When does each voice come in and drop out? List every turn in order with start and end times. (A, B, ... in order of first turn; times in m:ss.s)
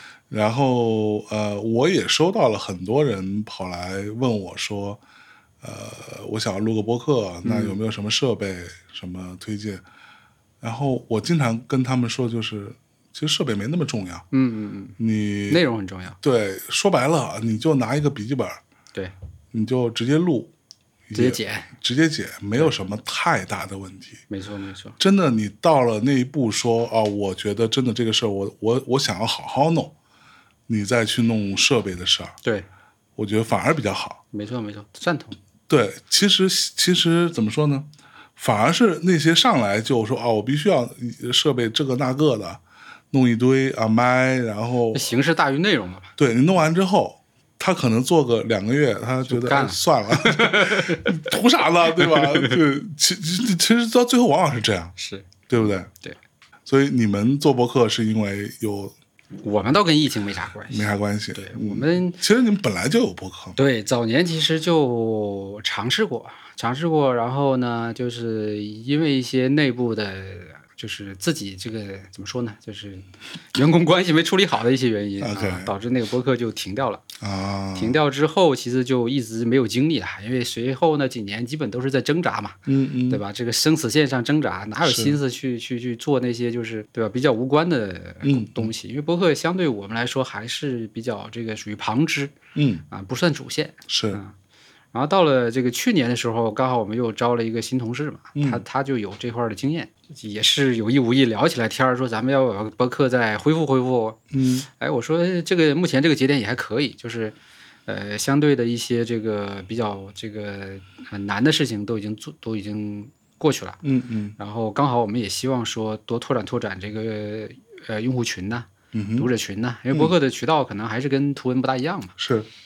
0:00.3-0:05.0 A
0:05.6-0:09.8 A
0:07.4-0:07.8 B
0:10.6-0:14.2 A
0:14.3-0:15.0 B
0:15.0-0:15.6 A
0:15.5-0:16.2 B
0:16.2-0:18.6 A
0:19.5-0:20.5 A
0:21.1-0:24.2 A
0:21.1-0:21.7 B
0:24.3-0:25.0 B
0:25.0-0:29.9 A
0:30.7-0:32.4 A
0:33.2-0:34.2 A
0:34.3-0:35.4 B
0:35.7-0:42.6 A
0:43.1-0:45.1 A
0:44.9-0:46.1 B
0:46.2-0:55.0 A
0:49.3-0:51.2 B
0:51.9-0:52.6 B
0:55.0-0:56.2 B
0:55.5-0:55.9 A
0:56.7-0:59.0 A
0:59.4-1:02.2 B
1:00.7-1:03.6 A
1:03.6-1:17.0 B
1:15.2-1:15.7 A
1:17.2-1:18.0 A
1:17.8-1:32.4 B
1:22.7-1:23.2 A
1:24.8-1:25.2 A
1:28.2-1:28.7 A
1:32.6-1:32.8 A
1:32.9-1:34.4 B
1:33.9-1:34.2 A
1:34.9-1:47.4 B
1:38.4-1:38.6 A
1:44.3-1:44.7 A
1:47.9-1:53.8 B
1:53.8-1:54.4 A
1:54.4-2:02.2 B
1:58.9-1:59.3 A
2:02.2-2:02.5 A